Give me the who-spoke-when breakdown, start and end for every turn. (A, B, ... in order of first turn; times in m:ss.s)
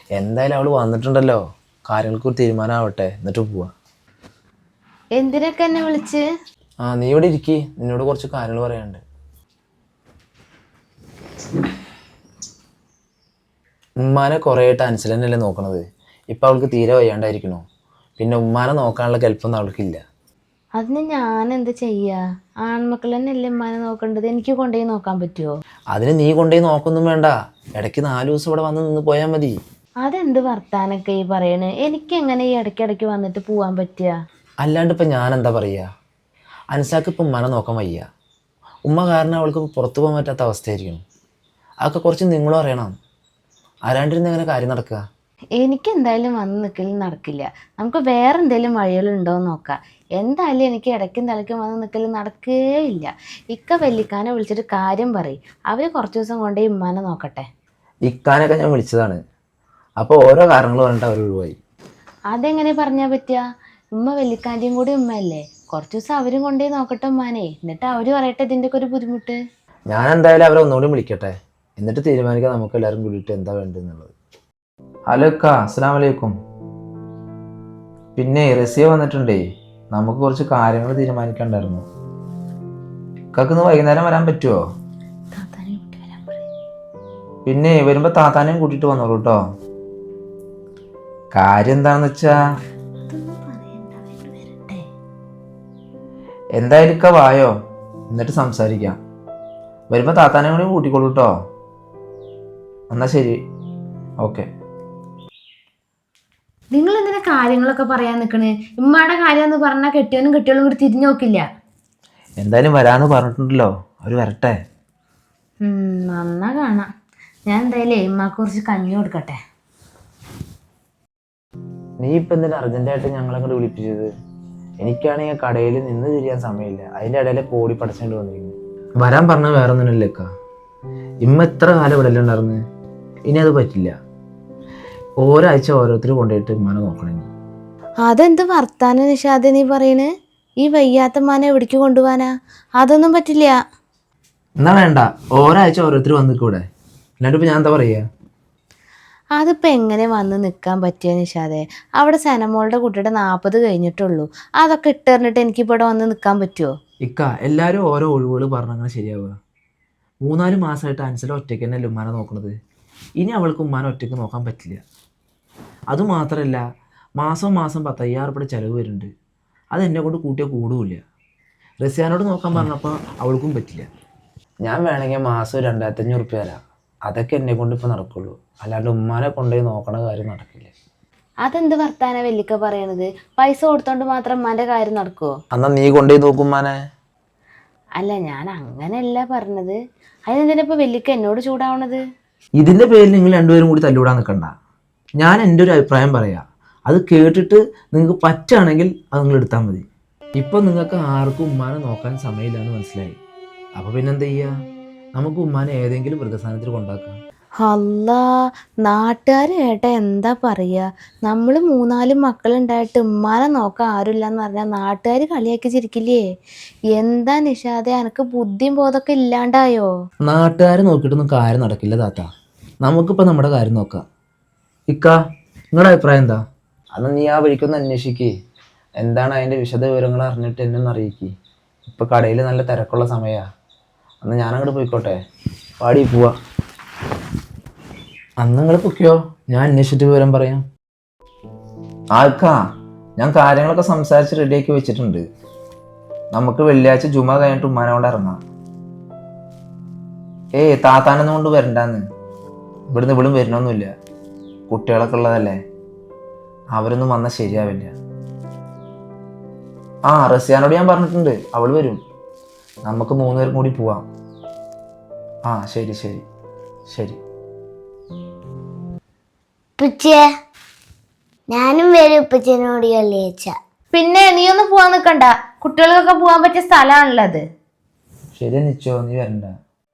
0:00.1-0:03.7 A
0:05.2-0:06.2 B
0:06.8-0:09.0 A
0:14.0-0:17.6 A
0:18.2-0:20.0 A
0:20.8-0:25.5 B
0:25.9-0:29.6 A
0:30.0-0:34.1 B
0:34.6-0:35.8 A
0:36.7-0:38.0 A
0:38.8-0:41.0 A
0:41.8-0:42.9 A
0:43.8-0:45.0 A
0:45.6-0:57.5 B
0:58.0-0:59.2 A
1:00.0-1:01.6 A
1:02.3-1:03.4 B
1:03.9-1:09.4 B
1:09.9-1:14.1 A
1:15.1-1:16.3 A
1:18.2-1:21.8 A
1:23.3-1:24.6 A
1:25.3-1:26.5 B
1:27.4-1:29.4 A
1:31.3-1:32.3 A
1:33.1-1:34.8 B
1:36.5-1:37.5 A
1:38.1-1:39.0 A
1:39.9-1:41.3 A
1:42.9-1:43.4 A
1:44.2-1:44.5 A
1:46.7-1:51.4 B
1:52.4-1:54.6 A
1:55.6-1:56.8 B
1:57.5-1:59.4 B
2:02.0-2:04.1 A
2:04.8-2:10.3 A
2:11.2-2:12.6 A
2:13.3-2:13.9 A
2:15.2-2:17.3 A
2:18.0-2:20.1 B
2:20.6-2:23.6 B
2:24.6-2:26.6 A
2:27.2-2:28.0 A
2:29.3-2:36.7 B
2:37.0-2:39.3 A
2:40.2-2:42.5 A
2:43.2-2:44.8 A
2:45.9-2:46.6 A
2:47.2-2:49.1 A
2:49.7-2:51.0 A
2:51.8-2:53.9 A
2:54.6-3:00.7 A
3:01.4-3:05.3 B
3:05.5-3:06.8 A
3:08.0-3:09.8 B
3:10.3-3:12.0 B
3:12.6-3:14.5 A
3:15.2-3:19.8 A
3:20.4-3:23.2 A
3:23.8-3:24.5 A
3:25.1-3:27.2 A
3:27.6-3:28.2 B
3:28.8-3:36.2 B
3:36.9-3:39.9 B
3:40.2-3:42.3 A
3:42.8-3:44.0 A
3:44.9-3:45.2 A
3:45.7-3:46.4 A
3:46.9-3:48.3 A
3:49.0-3:51.3 A
3:51.8-3:53.4 A
3:54.2-3:55.2 A
3:55.8-3:56.3 A
3:58.4-4:00.6 A
4:02.1-4:02.6 A
4:03.2-4:05.2 A
4:06.3-4:08.4 A
4:10.5-4:12.0 A
4:12.9-4:13.9 A
4:14.7-4:15.6 A
4:16.7-4:17.9 A
4:20.1-4:22.0 A
4:22.8-4:24.0 A
4:25.5-4:26.2 A
4:26.9-4:27.2 A
4:29.8-4:30.2 C
4:31.5-4:33.5 C
4:33.9-4:37.4 B
4:38.4-4:39.5 A